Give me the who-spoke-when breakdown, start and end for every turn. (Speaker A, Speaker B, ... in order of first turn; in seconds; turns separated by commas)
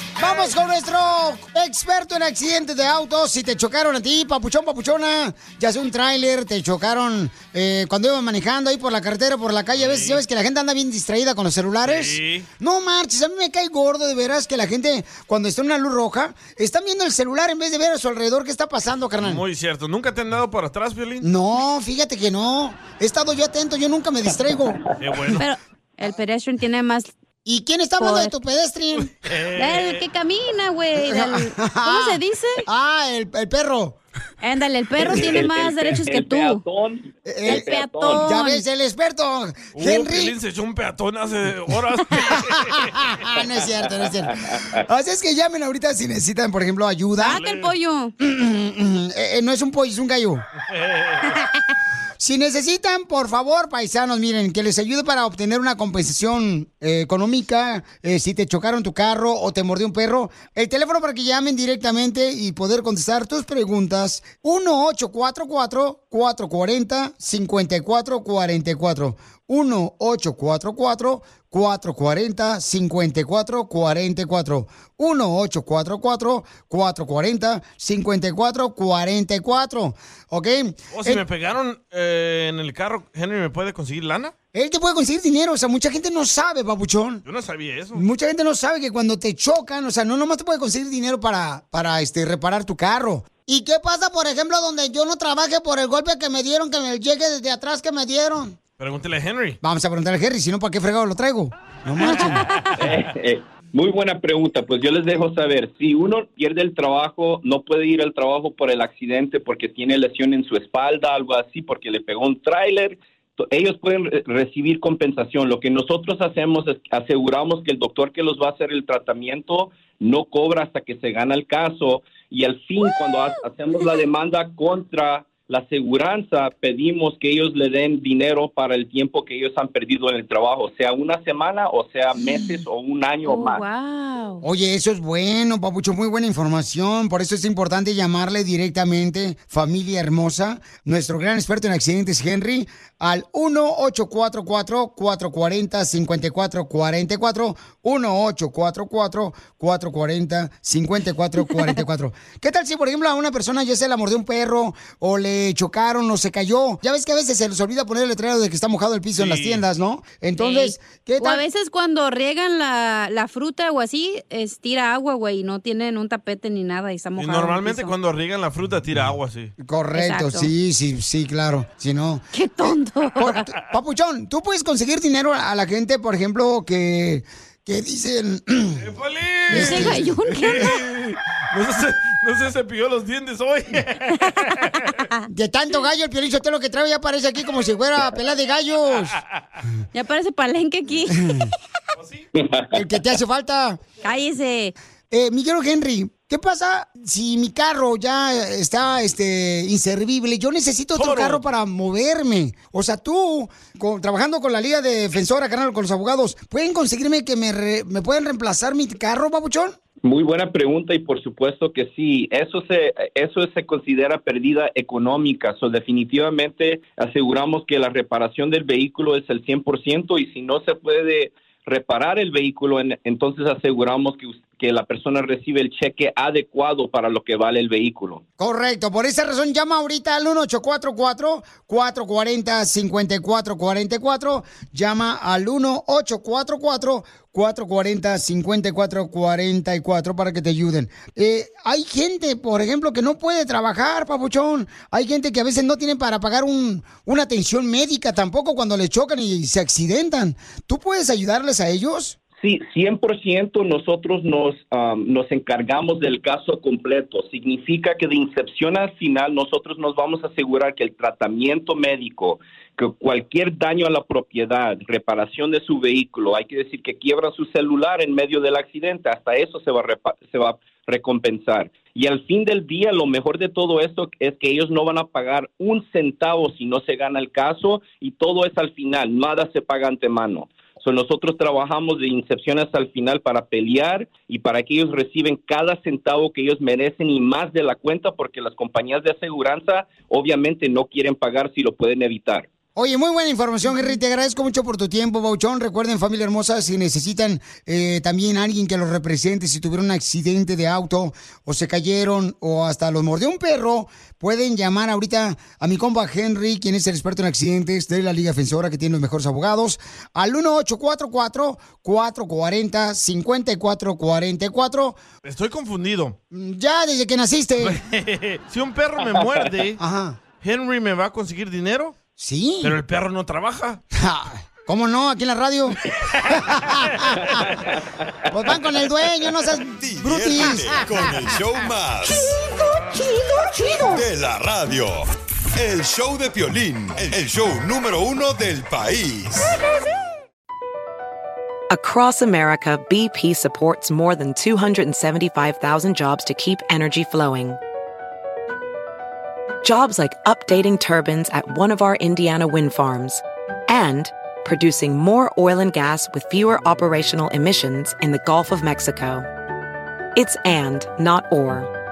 Speaker A: 0.2-19.4, Speaker B: 9.8-10.2, Speaker B: 11.8-12.5, Speaker B: 19.2-21.2, Speaker A: 21.2-24.8, Speaker B: 25.0-25.4, Speaker C: 25.4-27.1, Speaker A: 27.4-29.1, Speaker C: 28.0-28.4, Speaker B: 29.0-30.0, Speaker C: 29.6-32.6, Speaker A: 31.0-34.0, Speaker C: 34.4-36.6, Speaker A: 35.1-35.4, Speaker D: 35.1-38.2, Speaker A: 37.3-40.3, Speaker C: 37.5-38.6, Speaker B: 39.7-43.1, Speaker A: 42.4-47.4, Speaker C: 47.2-48.1, Speaker B: 47.4-47.7, Speaker A: 48.2-50.5, Speaker B: 50.7-51.3, Speaker A: 52.2-81.2, Speaker B: 80.9-84.3, Speaker A: 84.5-87.2, Speaker B: 87.2-88.0, Speaker A: 87.9-98.6, Speaker B: 98.8-99.6, Speaker A: 99.6-102.5, Speaker D: 102.8-133.7, Speaker C: 133.2-134.4, Speaker A: 134.4-161.4, Speaker B: 159.2-159.7, Speaker C: 160.4-167.9, Speaker B: 167.2-169.5, Speaker A: 169.6-178.8, Speaker C: 169.9-170.5, Speaker C: 172.3-173.5, Speaker B: 178.8-185.0, Speaker A: 179.5-180.1, Speaker C: 179.5-180.8, Speaker A: 185.3-189.2, Speaker C: 189.9-191.3, Speaker A: 191.1-191.5, Speaker B: 192.0-192.3, Speaker D: 192.3-192.8, Speaker A: 192.7-193.8, Speaker C: 194.0-194.7, Speaker A: 195.1-209.8, Speaker B: 201.0-201.4, Speaker D: 210.0-228.2, Speaker A: 228.4-252.2, Speaker D: 252.4-292.5, Speaker A: 292.8-315.0, Speaker B: 315.2-316.2, Speaker A: 316.3-317.8, Speaker B: 317.6-319.8, Speaker A: 319.8-320.2, Speaker B: 320.4-322.0, Speaker A: 322.2-322.8, Speaker B: 322.6-323.8, Speaker A: 323.9-327.5, Speaker A: 328.3-331.2, Speaker E: 329.8-332.4, Speaker E: 333.9-339.6, Speaker F: 341.7-347.6, Speaker F: 349.6-359.3, Speaker F: 360.1-361.7